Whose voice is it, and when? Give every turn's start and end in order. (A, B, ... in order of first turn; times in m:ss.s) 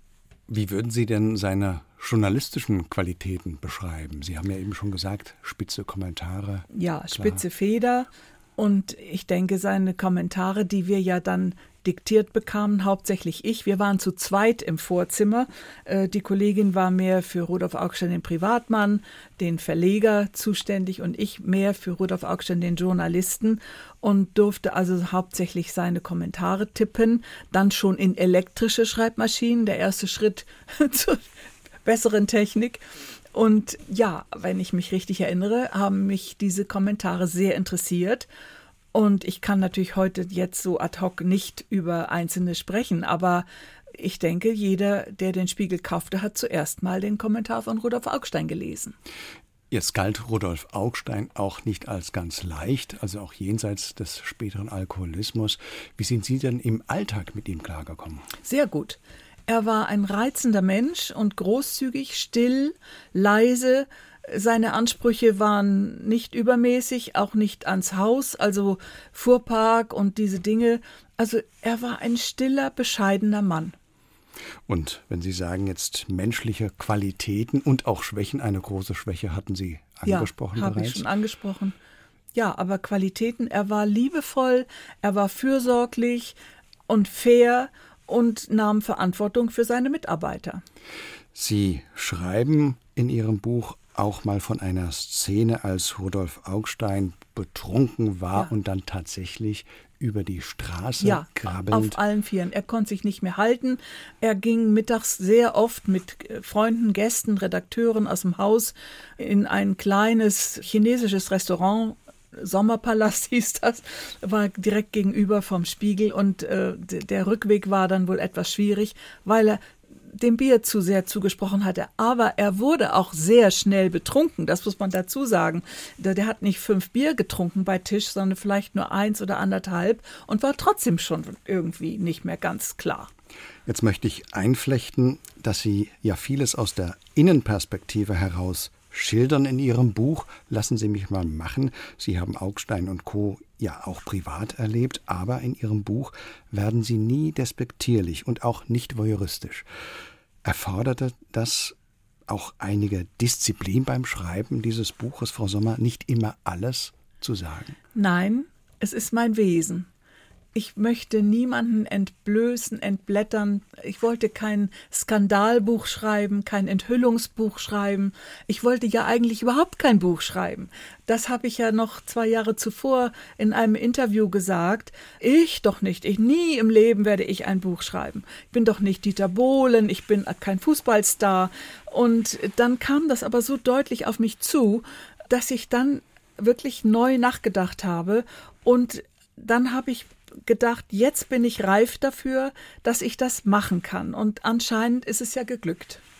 0:00.5-0:07.4 A
0:06.7-0:31.2 B
0:31.8-0:32.8 B
0:33.3-0:38.3 B
0:38.9-0:48.9 B
0:49.7-0:58.3 A
0:58.4-1:13.8 B
1:14.7-1:21.0 A
1:20.0-1:21.8 B
1:22.3-1:26.3 B
1:26.9-1:30.6 B
1:31.3-1:42.0 A
1:41.0-1:59.6 B
2:00.1-2:13.1 B
2:13.6-2:29.6 A
2:30.4-2:31.8 A
2:32.3-2:37.8 A
2:37.9-2:39.9 B
2:40.5-3:16.0 B